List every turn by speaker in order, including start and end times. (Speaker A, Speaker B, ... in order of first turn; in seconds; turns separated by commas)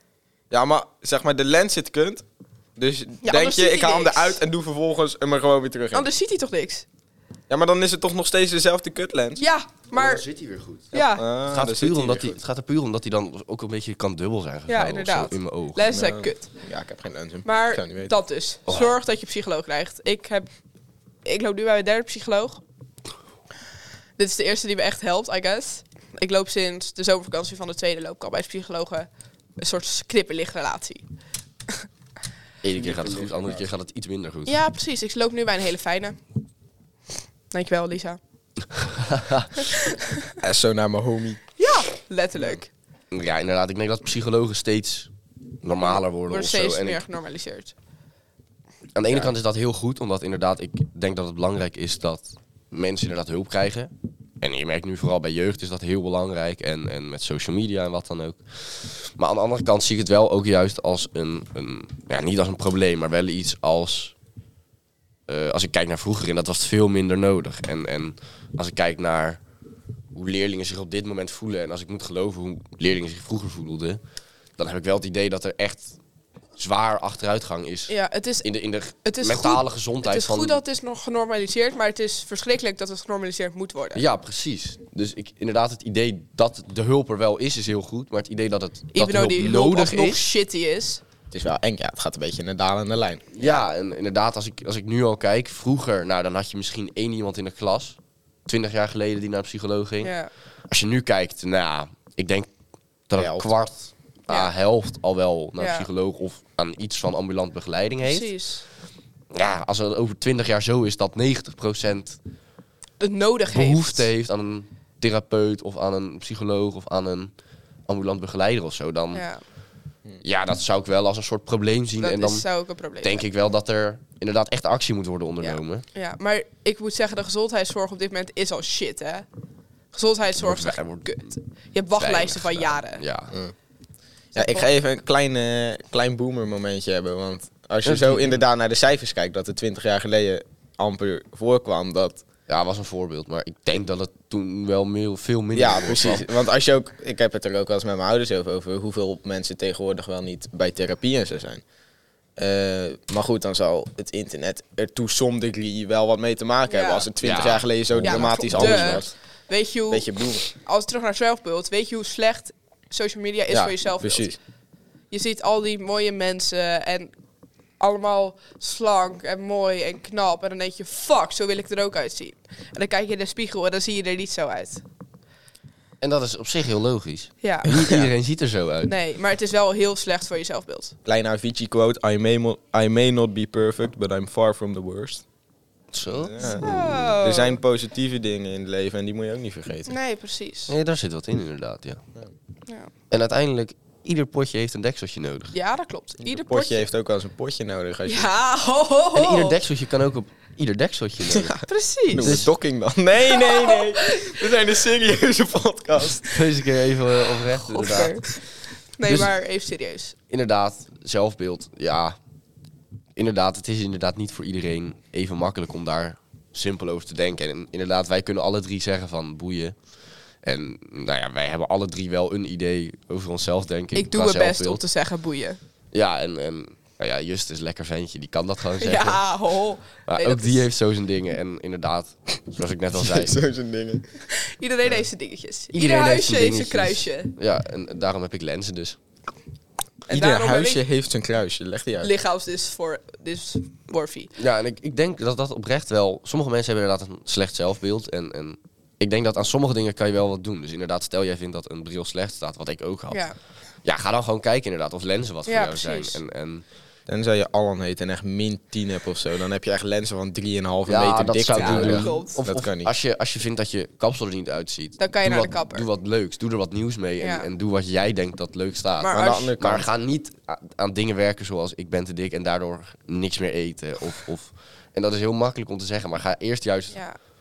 Speaker A: 0.5-2.2, Speaker A: 2.8-6.1, Speaker B: 3.2-4.4, Speaker B: 5.9-6.9, Speaker A: 7.5-9.4, Speaker B: 9.4-10.2, Speaker C: 9.9-15.8, Speaker B: 10.9-11.2, Speaker A: 11.2-12.4, Speaker B: 14.7-16.5, Speaker A: 15.9-18.1, Speaker B: 17.4-20.5, Speaker C: 18.7-18.9, Speaker B: 21.2-22.6, Speaker B: 24.2-31.0, Speaker C: 32.6-34.6, Speaker A: 32.8-33.6, Speaker B: 34.5-36.2, Speaker B: 37.5-38.2, Speaker C: 38.9-39.5, Speaker B: 39.6-40.3, Speaker A: 40.4-41.4, Speaker B: 41.6-42.7, Speaker C: 43.1-45.1, Speaker C: 45.6-47.0, Speaker B: 45.8-47.7, Speaker C: 49.0-64.1, Speaker C: 65.3-69.4, Speaker C: 70.1-74.0, Speaker C: 74.6-76.0, Speaker C: 76.6-80.6, Speaker B: 77.9-78.5, Speaker B: 79.0-84.0, Speaker C: 84.0-90.3, Speaker B: 88.9-91.0, Speaker A: 91.3-93.2, Speaker C: 93.3-100.1, Speaker B: 93.4-93.7, Speaker B: 100.0-100.3, Speaker C: 100.7-102.5, Speaker C: 103.1-108.3, Speaker A: 103.2-103.5, Speaker B: 105.6-105.9, Speaker B: 108.0-108.6, Speaker C: 109.3-112.2, Speaker B: 113.0-114.1, Speaker C: 113.5-117.3, Speaker C: 117.9-119.2, Speaker B: 119.1-119.4, Speaker C: 120.2-122.5, Speaker B: 122.0-123.2, Speaker C: 123.0-125.8, Speaker B: 125.4-129.3, Speaker B: 129.9-133.0, Speaker C: 130.4-131.2, Speaker C: 132.0-133.4, Speaker B: 134.3-134.7, Speaker A: 134.3-142.2, Speaker C: 137.8-138.4, Speaker C: 142.5-146.3, Speaker A: 145.5-151.6, Speaker A: 152.4-159.1, Speaker B: 156.7-157.1, Speaker C: 157.2-159.1, Speaker B: 158.0-164.3, Speaker A: 159.9-160.4, Speaker A: 163.5-164.4, Speaker B: 165.1-167.1, Speaker B: 167.8-174.8, Speaker C: 176.0-178.9, Speaker B: 177.4-177.7, Speaker A: 177.7-178.1, Speaker B: 178.9-180.9, Speaker A: 181.1-185.2, Speaker C: 185.9-187.0, Speaker A: 186.1-189.9, Speaker B: 186.4-187.6, Speaker B: 189.9-190.7, Speaker C: 190.7-192.0, Speaker C: 193.1-195.5, Speaker B: 195.5-196.9, Speaker A: 196.2-198.3, Speaker B: 198.1-199.6, Speaker C: 199.2-201.6, Speaker A: 201.3-206.3, Speaker B: 201.7-202.4, Speaker C: 202.2-202.5, Speaker B: 203.3-204.4, Speaker C: 206.3-208.2, Speaker B: 207.4-208.4, Speaker B: 209.0-210.1, Speaker C: 210.3-212.2, Speaker C: 213.2-219.8, Speaker C: 220.4-224.8, Speaker B: 223.9-225.6, Speaker C: 225.9-229.3, Speaker B: 228.8-230.6, Speaker C: 230.1-233.4, Speaker A: 233.0-234.1, Speaker B: 234.3-237.3, Speaker C: 235.7-239.0, Speaker B: 240.1-240.8, Speaker A: 240.1-242.1, Speaker B: 242.0-244.3, Speaker C: 244.4-253.2, Speaker C: 253.8-256.6, Speaker B: 255.5-256.2, Speaker A: 257.1-262.9, Speaker C: 260.9-277.0, Speaker B: 261.6-262.4, Speaker B: 265.0-265.9, Speaker B: 267.2-267.5, Speaker B: 269.0-269.5, Speaker A: 269.1-269.9